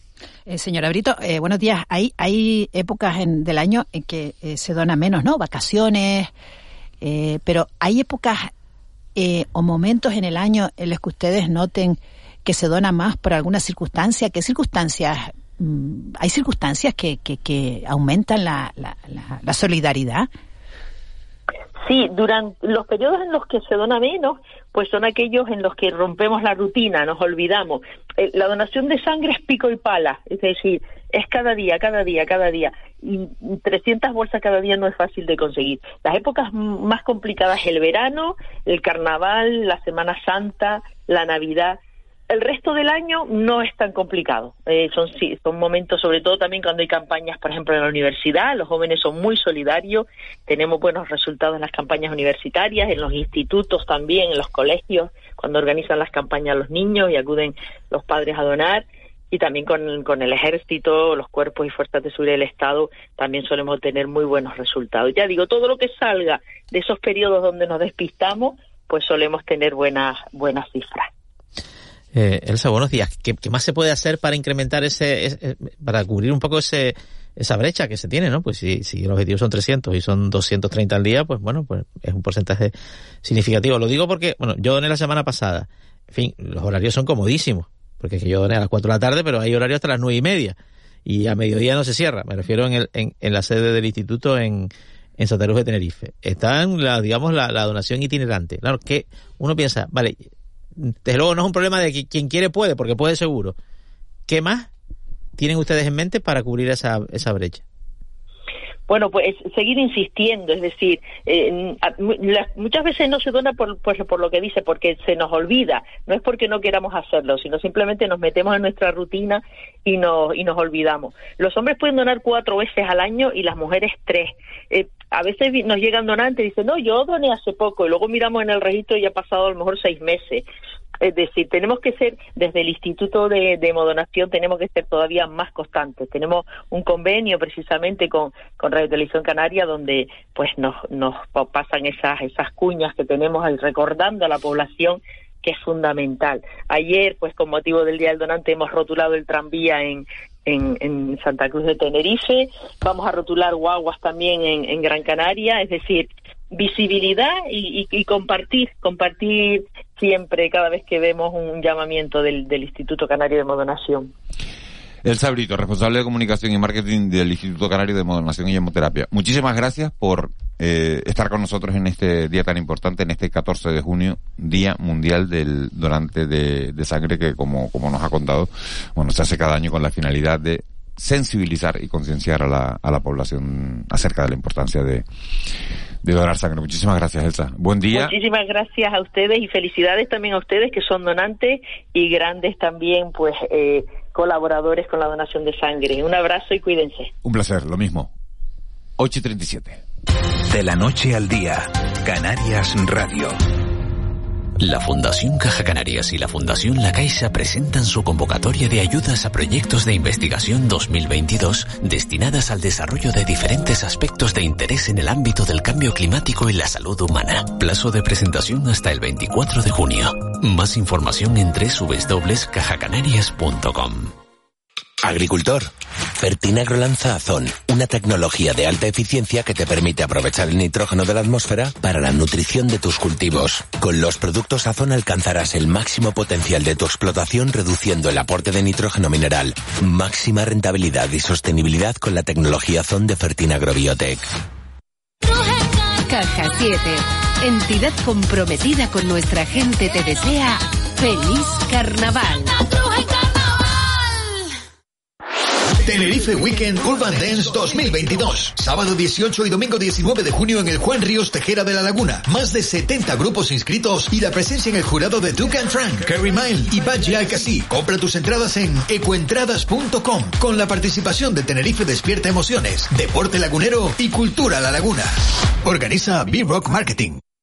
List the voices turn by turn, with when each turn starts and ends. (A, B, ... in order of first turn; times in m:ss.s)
0:00.5-0:06.3 A
0:07.0-0:08.5 A
0:09.2-0:20.3 A
0:21.8-0:41.8 B
0:42.3-1:11.1 B
1:12.1-1:40.3 C
1:40.8-1:43.6 C
1:44.3-1:44.7 C
1:45.4-1:47.6 C
1:48.9-2:10.5 B
2:11.0-2:44.1 B
2:45.0-3:05.0 D
3:06.0-3:08.1 D
3:07.9-3:17.1 B
3:17.2-3:18.1 D
3:19.0-3:19.8 D
3:20.5-3:23.4 E
3:24.6-3:44.1 F
3:45.0-4:04.3 G
4:06.0-4:12.6 H
4:15.8-4:35.1 I
4:35.6-4:37.2 I